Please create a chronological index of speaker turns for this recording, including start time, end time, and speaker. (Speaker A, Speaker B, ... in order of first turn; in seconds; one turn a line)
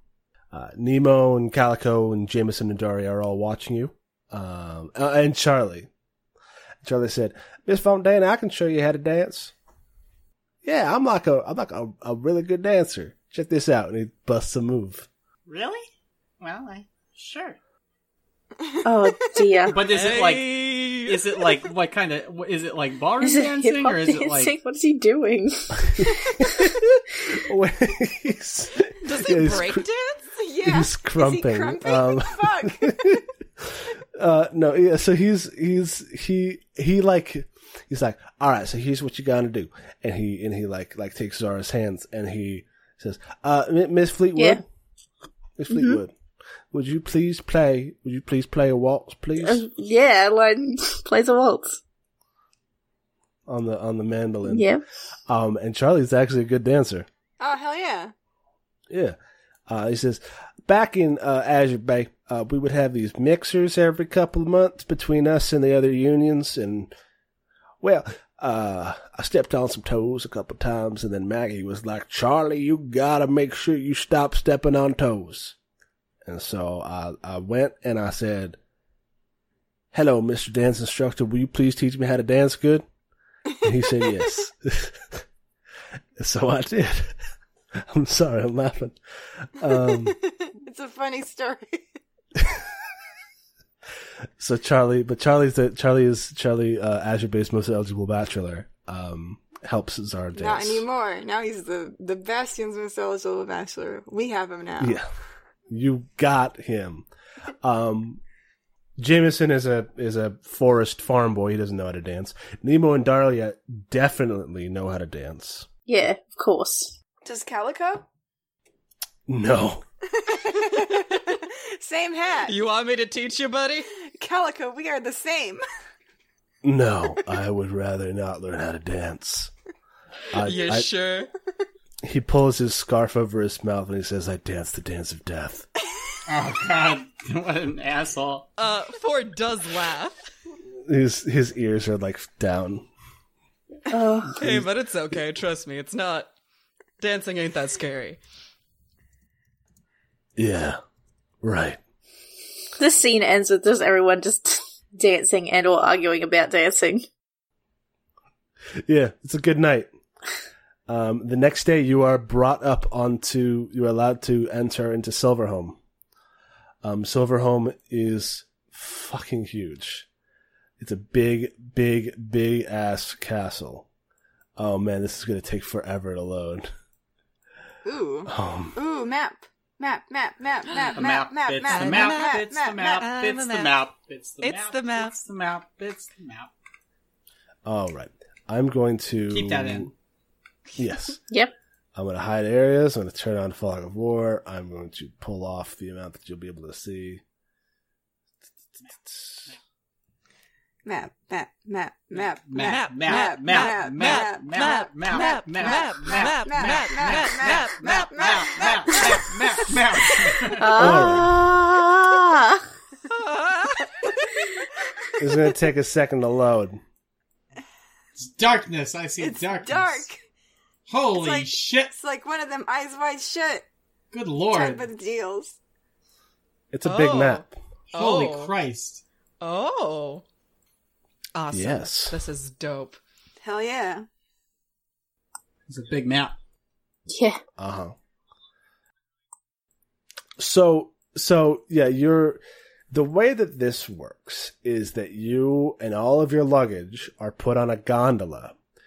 Speaker A: 0.5-5.9
Speaker A: 6.8-9.5
Speaker A: 10.6-15.1
Speaker B: 15.5-15.8
Speaker B: 16.4-17.6
Speaker C: 18.6-19.6
Speaker D: 18.8-19.8
Speaker B: 19.7-24.5
Speaker E: 19.8-21.3
Speaker D: 23.2-26.7
Speaker A: 25.8-29.9
Speaker E: 29.0-30.2
Speaker C: 30.3-33.2
Speaker A: 30.6-44.6
Speaker D: 44.4-44.6
Speaker A: 45.6-46.1
Speaker D: 45.7-46.0
Speaker A: 46.7-49.6
Speaker D: 49.4-51.8
Speaker A: 53.5-54.7
Speaker D: 54.5-54.8
Speaker A: 55.2-57.1
Speaker C: 57.4-58.1
Speaker A: 58.9-59.1
Speaker A: 59.7-66.9
Speaker A: 67.8-75.5
Speaker A: 76.2-78.6
Speaker A: 79.9-82.8
Speaker A: 83.6-85.2
Speaker A: 86.2-87.2
Speaker A: 87.8-90.2
Speaker C: 90.1-91.8
Speaker A: 94.4-100.8
Speaker C: 100.3-105.0
Speaker A: 104.8-105.1
Speaker A: 105.7-107.1
Speaker A: 107.6-108.2
Speaker A: 109.0-115.7
Speaker D: 115.9-116.9
Speaker C: 117.2-118.0
Speaker A: 119.3-119.8
Speaker C: 120.1-122.5
Speaker E: 122.4-123.9
Speaker C: 124.1-125.6
Speaker A: 126.6-129.5
Speaker A: 130.3-130.9
Speaker E: 130.4-131.3
Speaker A: 132.0-135.7
Speaker B: 136.3-138.5
Speaker E: 138.6-140.2
Speaker A: 140.8-142.9
Speaker D: 143.9-144.4
Speaker E: 144.3-146.3
Speaker A: 144.4-144.7
Speaker E: 147.0-148.2
Speaker A: 150.4-150.8
Speaker A: 151.4-151.8
Speaker D: 152.8-157.1
Speaker A: 158.8-159.9
Speaker A: 160.9-165.8
Speaker A: 166.8-170.1
Speaker A: 170.8-173.8
Speaker A: 174.6-176.7
Speaker C: 177.8-183.0
Speaker A: 178.3-178.8
Speaker B: 180.8-186.5
Speaker E: 181.7-183.8
Speaker E: 184.4-185.1
Speaker A: 187.6-189.9
Speaker B: 189.3-189.9
Speaker A: 190.8-191.2
Speaker A: 191.9-197.2
Speaker A: 199.0-199.5
Speaker C: 200.8-209.4
Speaker B: 202.5-210.8
Speaker E: 202.6-208.4
Speaker C: 209.9-210.6
Speaker D: 210.5-212.7
Speaker A: 210.7-211.3
Speaker E: 213.1-214.0
Speaker A: 215.2-216.8
Speaker B: 218.2-220.1
Speaker C: 219.2-220.2
Speaker B: 220.9-221.9
Speaker C: 221.1-223.6
Speaker B: 224.1-224.8
Speaker C: 224.5-225.6
Speaker A: 226.7-227.5
Speaker E: 226.8-228.5
Speaker B: 227.9-229.0
Speaker E: 229.4-230.2
Speaker E: 231.3-233.0
Speaker A: 231.5-232.2
Speaker C: 233.4-234.1
Speaker B: 235.7-236.3
Speaker D: 237.1-237.4
Speaker A: 237.6-237.9
Speaker A: 240.4-248.5